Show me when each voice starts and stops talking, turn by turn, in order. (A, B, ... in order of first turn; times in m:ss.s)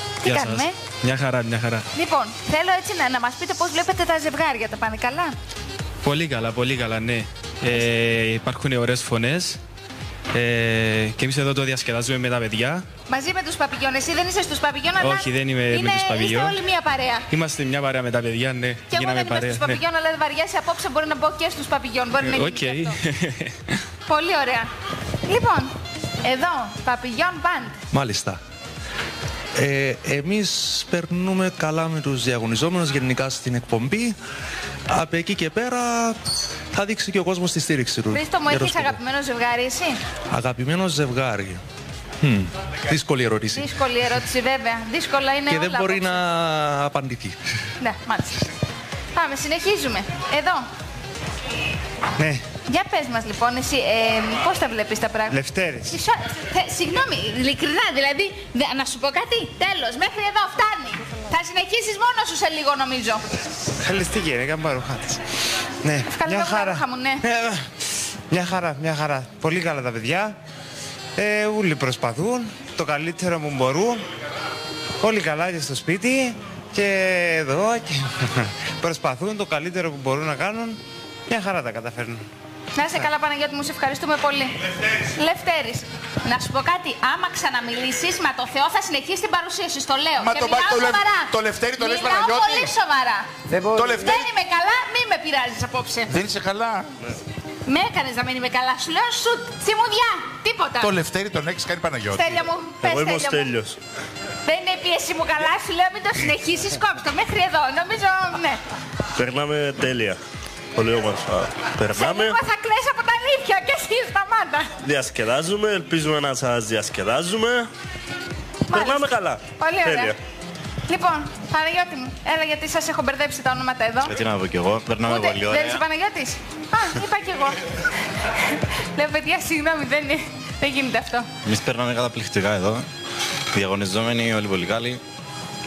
0:00.2-0:00.8 A
0:00.2-0:01.9 B
0:01.9-0:05.4 A
0:06.0-0:09.6 B
0:10.3-0:12.8 B
0:13.1-0:17.3 A
0:15.0-0:16.6 B
0:17.3-0:19.8 B
0:18.9-0:23.0 A
0:22.2-0:23.8 B
0:24.1-0:24.7 A
0:25.3-0:27.8 A
0:27.9-0:28.4 C
0:29.6-0:34.2 C
0:34.9-0:39.0 C
0:38.1-0:40.0 A
0:40.3-0:41.6 C
0:42.2-0:43.7 C
0:43.5-0:46.2 A
0:45.5-0:47.4 C
0:47.8-0:48.5 A
0:49.2-0:50.7 A
0:52.2-0:52.5 D
0:52.6-1:03.2 A
0:55.3-0:55.9 D
1:03.8-1:05.2 D
1:05.8-1:07.7 D
1:06.1-1:07.2 A
1:08.3-1:10.4 D
1:11.2-1:14.0 D
1:15.0-1:22.2 D
1:22.8-1:33.3 A
1:30.2-1:32.7 E
1:33.7-1:34.2 E
1:33.9-1:36.2 A
1:36.1-1:36.9 E
1:37.6-1:41.0 A
1:40.8-1:42.4 E
1:42.1-1:43.5 A
1:42.8-1:43.8 F
1:44.4-1:48.6 A
1:49.2-1:50.2 F
1:50.8-1:52.4 F
1:51.9-1:54.7 A
1:54.8-1:57.7 F
1:58.7-2:00.2 F
1:58.7-2:00.2 A
2:00.9-2:04.2 A
2:04.0-2:05.8 G
2:05.0-2:07.6 A
2:08.2-2:11.3 A
2:11.4-2:12.9 G
2:13.5-2:15.0 G